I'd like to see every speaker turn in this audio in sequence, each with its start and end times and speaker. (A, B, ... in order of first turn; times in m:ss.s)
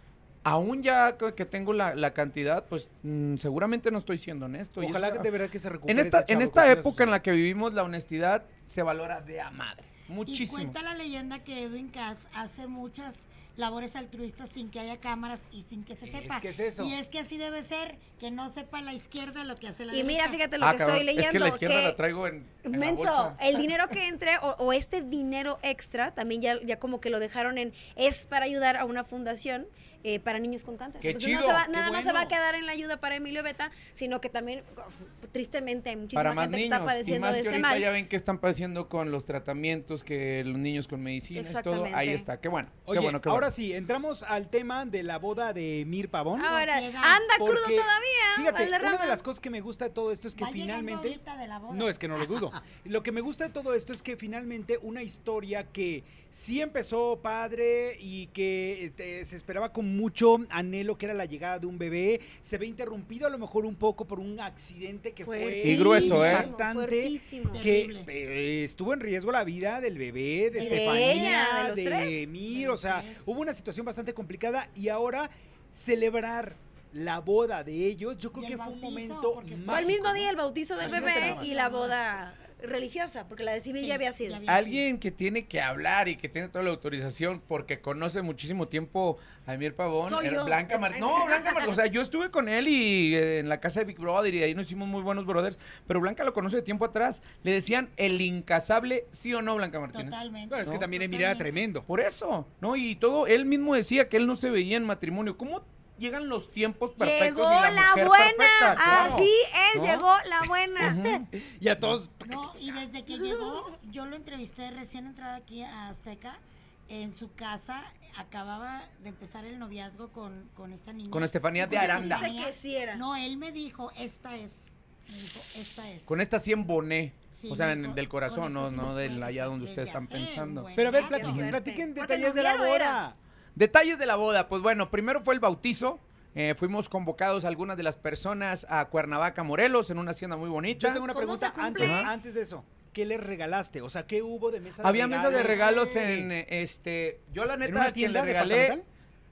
0:00.4-0:05.3 A
0:04.8-0:07.2 B
0:05.9-0:10.8 A
0:10.3-0:20.4 C
0:16.0-0:17.0 B
0:19.9-0:22.0 D
0:20.6-0:23.4 A
0:22.6-0:37.9 D
0:31.0-0:31.8 A
0:31.7-0:32.3 B
0:36.2-0:43.5 A
0:41.3-0:42.3 D
0:42.9-0:46.5 B
0:46.4-0:49.2 D
0:46.5-0:47.3 C
0:47.4-1:21.5 B
0:50.4-0:52.4 C
1:05.2-1:07.8 D
1:05.6-1:06.5 A
1:06.1-1:06.5 C
1:07.5-1:08.1 C
1:10.5-1:11.4 C
1:10.5-1:12.3 D
1:12.5-1:13.3 C
1:18.3-1:20.2 C
1:19.7-1:24.4 D
1:20.8-1:22.0 C
1:23.7-1:24.9 C
1:24.5-1:40.9 A
1:30.0-1:31.8 D
1:39.9-1:41.6 C
1:40.5-1:41.9 B
1:41.9-1:50.1 A
1:47.0-1:51.0 D
1:48.8-1:49.3 B
1:50.8-1:51.3 A
1:50.8-1:52.8 B
1:52.2-2:06.2 C
1:53.1-1:53.6 D
2:01.1-2:02.4 A
2:01.6-2:03.0 D
2:06.1-2:10.7 A
2:07.3-2:11.6 C
2:10.8-2:13.2 B
2:10.8-2:13.0 D
2:13.6-2:21.0 A
2:20.7-2:26.3 B
2:21.0-2:22.1 D
2:21.8-2:22.1 A
2:24.8-2:28.8 A
2:27.6-2:28.8 B